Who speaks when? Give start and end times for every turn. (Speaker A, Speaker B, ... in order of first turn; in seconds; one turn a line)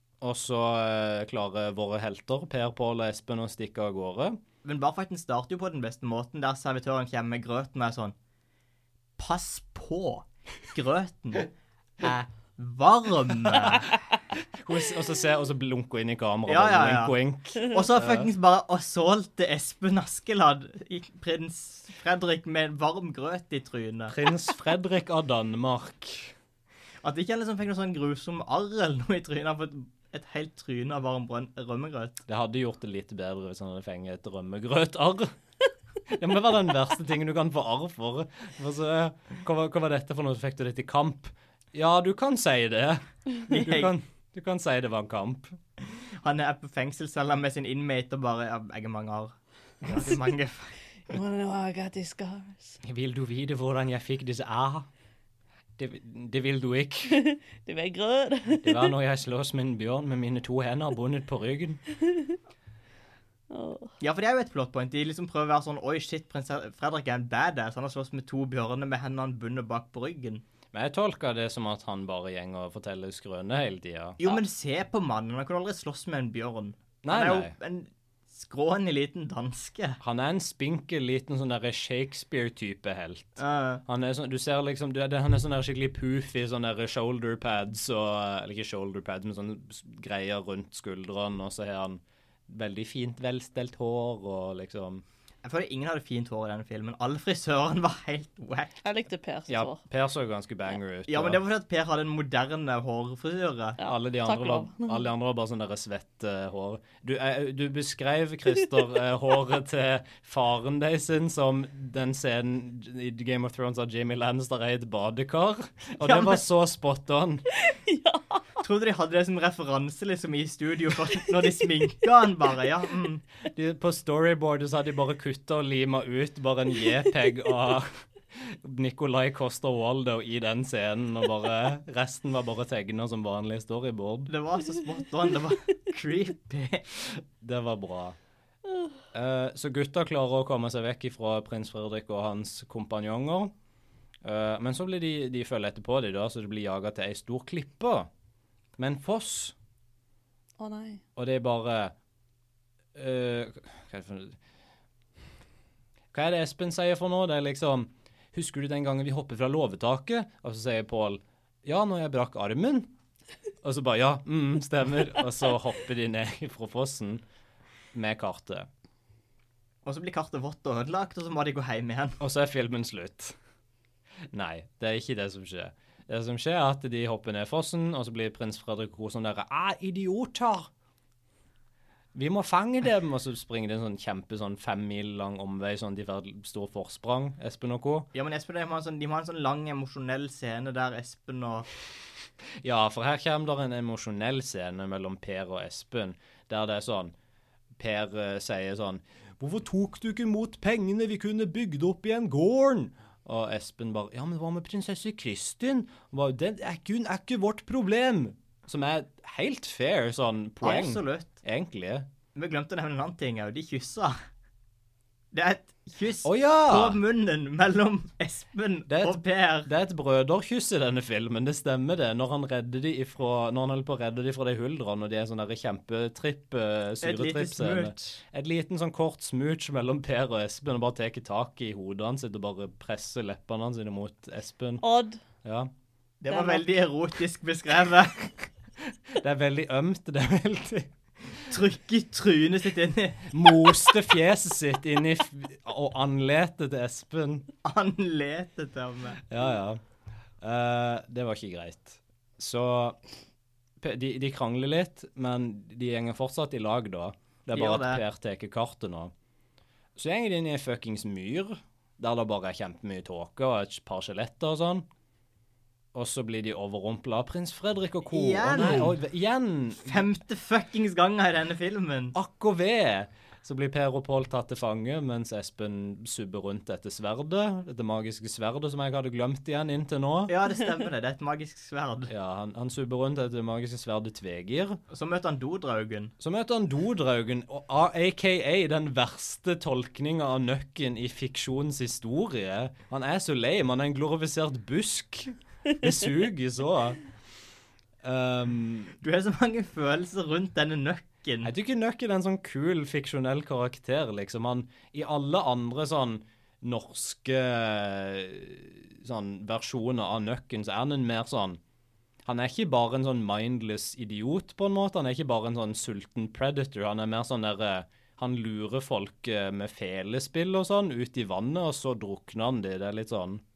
Speaker A: 0.2-4.4
Speaker B: 4.6-8.1
Speaker B: 9.2-13.9
Speaker A: 14.5-18.3
Speaker B: 16.5-24.1
Speaker A: 24.1-26.3
Speaker B: 27.0-32.2
Speaker A: 32.3-35.3
Speaker A: 36.1-45.6
Speaker B: 43.5-43.9
Speaker B: 45.8-50.8
Speaker C: 51.1-52.8
Speaker A: 52.8-54.9
Speaker A: 55.8-57.2
Speaker C: 57.1-58.9
Speaker A: 58.6-61.8
Speaker C: 62.0-62.4
Speaker C: 63.5-63.9
Speaker B: 64.0-70.4
Speaker A: 70.7-74.2
Speaker B: 74.2-80.0
Speaker A: 77.0-77.5
Speaker A: 80.0-95.0
Speaker B: 83.4-83.8
Speaker B: 95.4-98.7
Speaker C: 98.8-99.8
Speaker A: 99.5-101.4
Speaker B: 101.1-103.8
Speaker C: 103.8-105.0
Speaker A: 103.8-117.5
Speaker C: 117.5-118.4
Speaker B: 118.6-123.2
Speaker A: 123.5-134.3
Speaker B: 134.3-136.9
Speaker A: 137.4-138.2
Speaker A: 139.1-143.5
Speaker A: 144.2-148.1
Speaker A: 148.8-149.5
Speaker C: 150.6-151.0
Speaker A: 151.2-151.9
Speaker A: 152.9-154.4
Speaker A: 156.1-162.9
Speaker A: 163.6-167.2
Speaker A: 167.9-168.7
Speaker B: 169.8-172.2
Speaker A: 172.2-173.4
Speaker A: 174.3-180.7
Speaker A: 182.1-188.1
Speaker B: 188.1-191.7
Speaker A: 192.6-197.1
Speaker A: 197.8-212.1
Speaker B: 210.6-211.3
Speaker B: 212.3-214.2
Speaker B: 215.3-219.7
Speaker A: 216.2-217.0
Speaker A: 218.9-234.8
Speaker B: 227.0-228.2
Speaker C: 234.8-235.2
Speaker A: 235.4-235.7
Speaker B: 236.2-238.3
Speaker C: 236.3-236.7
Speaker A: 239.1-240.9
Speaker B: 241.4-243.9
Speaker A: 243.3-247.5
Speaker B: 247.6-249.2
Speaker A: 249.2-249.8
Speaker A: 250.4-253.0
Speaker A: 253.8-259.1
Speaker B: 257.5-258.0
Speaker A: 259.9-264.9
Speaker A: 265.9-270.1
Speaker B: 268.1-268.9
Speaker B: 269.8-272.1
Speaker A: 272.1-280.3
Speaker B: 280.3-282.1
Speaker A: 282.1-284.8
Speaker B: 284.9-286.1
Speaker A: 286.2-297.0
Speaker A: 298.0-298.9
Speaker B: 299.0-301.5
Speaker A: 301.4-311.6
Speaker A: 312.2-323.4